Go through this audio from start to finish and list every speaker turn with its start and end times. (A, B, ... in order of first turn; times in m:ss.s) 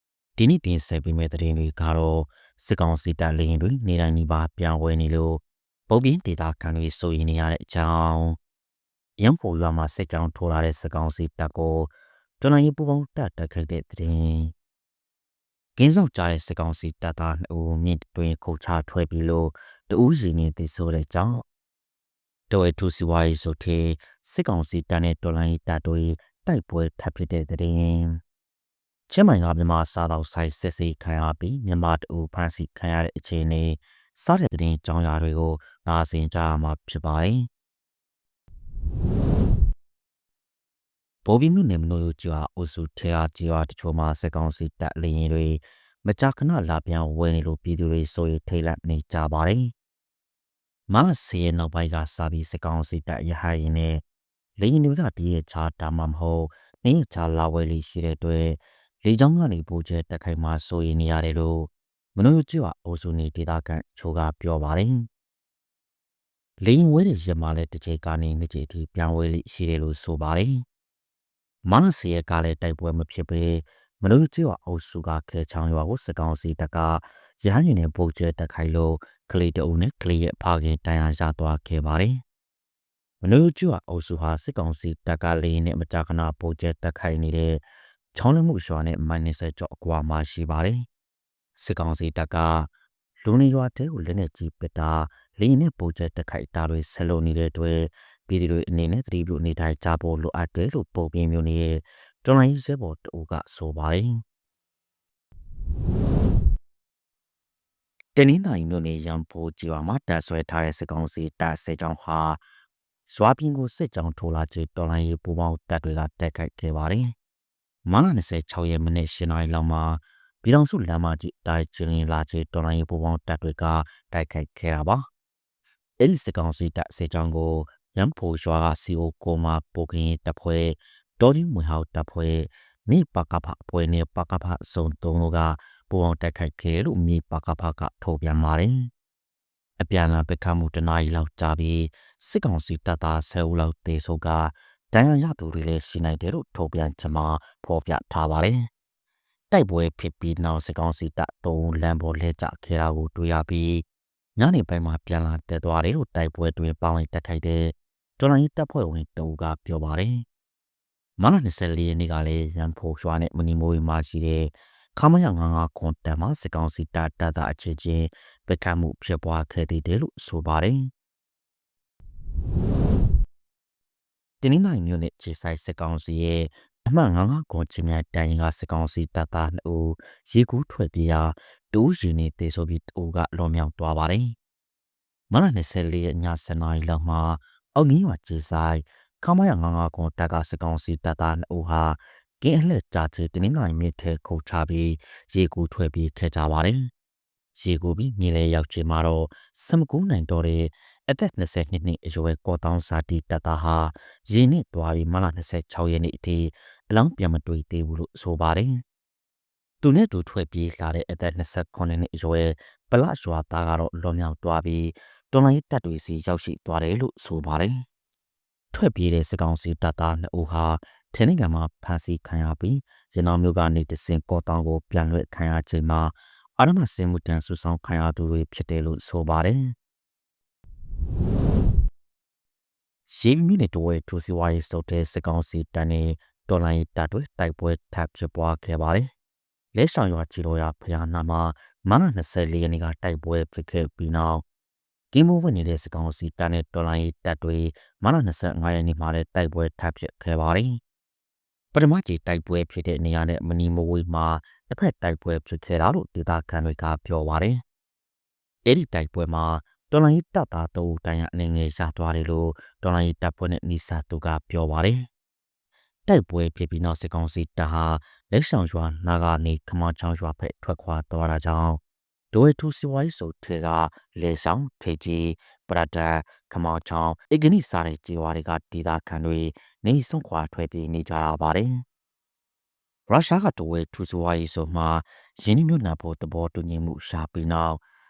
0:00.4-0:08.4 A
0:09.2-0:14.5 A
0:15.8-0:21.4 A
0:22.5-0:28.2 A
0:29.1-0:37.5 A
0:41.2-0:49.7 A
0:50.9-0:54.0 A
0:54.6-1:05.1 A
1:06.6-1:10.6 A
1:11.6-1:22.2 A
1:23.2-1:27.6 A
1:28.1-1:30.8 A
1:31.6-1:32.7 A
1:33.2-1:44.1 A
1:48.2-1:52.4 A
1:53.1-1:57.1 A
1:57.8-2:05.0 A
2:06.0-2:18.7 A
2:19.8-2:28.6 A
2:29.5-2:33.8 A
2:34.4-2:40.2 A
2:41.2-2:50.9 A
2:54.4-3:04.4 A
3:05.3-3:16.8 A
3:17.6-3:28.8 A
3:29.8-3:37.8 A
3:38.7-3:49.7 A
3:53.1-3:59.1 A
3:59.7-4:04.4 A
4:05.1-4:10.8 A
4:11.7-4:17.6 A
4:18.7-4:25.1 A
4:26.1-4:41.8 A
4:43.1-4:47.8 A